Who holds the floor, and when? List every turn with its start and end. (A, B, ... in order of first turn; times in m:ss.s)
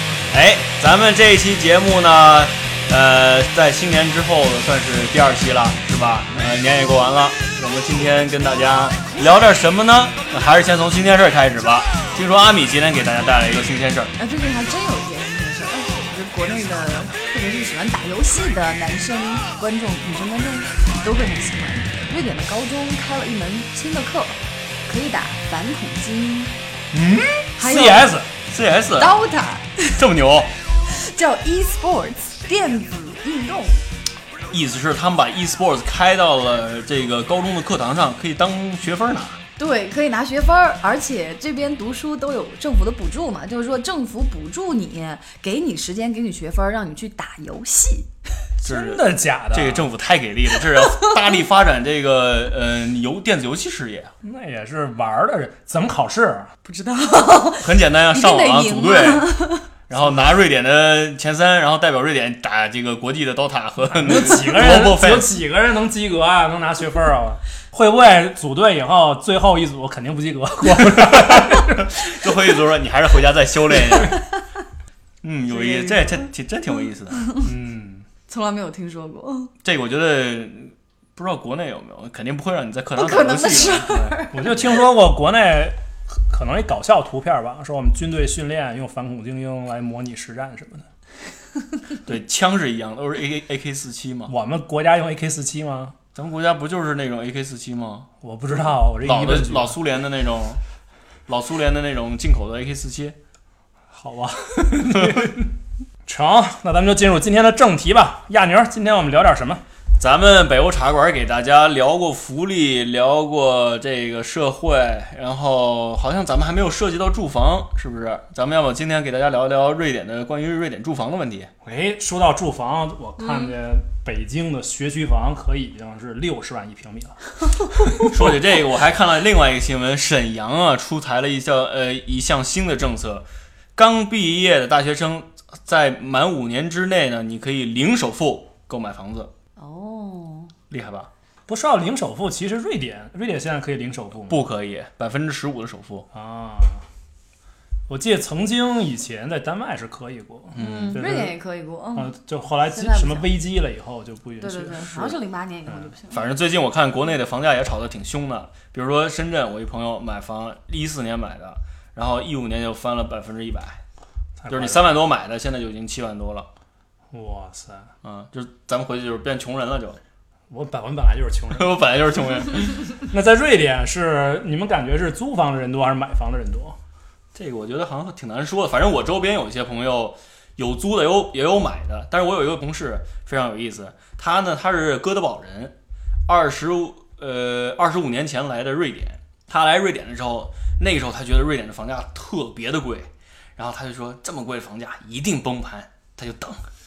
0:00.3-0:14.1 A
0:14.2-0:26.5 B
0:26.9-0:28.3 C
0:27.6-0:28.1 B
0:28.5-0:29.2 A
0:29.0-0:30.0 B
0:30.0-0:30.5 A
0:30.9-0:33.8 B
0:34.5-0:39.4 A
0:39.6-0:48.1 B
0:48.6-0:49.9 C
0:48.6-0:54.1 A
0:50.9-0:51.2 B
0:54.2-0:56.5 C
0:56.6-0:59.7 B
0:57.6-0:59.3 A
0:59.9-1:05.3 A
1:03.9-1:12.1 C
1:10.8-1:14.2 A
1:14.0-1:14.5 B
1:15.2-1:17.3 A
1:15.5-1:16.3 B
1:17.2-1:17.5 B
1:17.4-1:18.1 C
1:18.3-1:19.5 B
1:19.6-1:24.7 A
1:23.0-1:24.8 B
1:24.3-1:30.9 C
1:32.0-1:34.3 A
1:34.3-1:36.0 C
1:36.2-1:38.1 A
1:38.2-1:39.8 C
1:39.0-1:40.6 A
1:41.3-1:43.2 A
1:43.9-1:45.5 C
1:44.9-1:45.3 A
1:46.1-1:49.6 C
1:50.0-2:01.5 A
2:01.6-2:08.4 C
2:03.2-2:03.5 B
2:08.1-2:19.3 A
2:19.6-2:20.5 B
2:20.7-2:21.1 A
2:21.5-2:24.4 C
2:24.3-2:26.1 A
2:26.1-2:26.8 C
2:27.9-2:31.4 C
2:30.6-2:31.0 A
2:30.6-2:33.3 B
2:32.0-2:35.9 C
2:34.4-2:36.2 B
2:36.1-2:43.8 A
2:44.4-2:45.0 C
2:44.5-2:46.5 A
2:47.1-2:47.9 C
2:48.0-2:50.0 A
2:50.5-2:51.8 C
2:51.5-2:52.8 A
2:53.0-2:56.8 C
2:57.3-3:05.7 A
3:06.3-3:16.7 A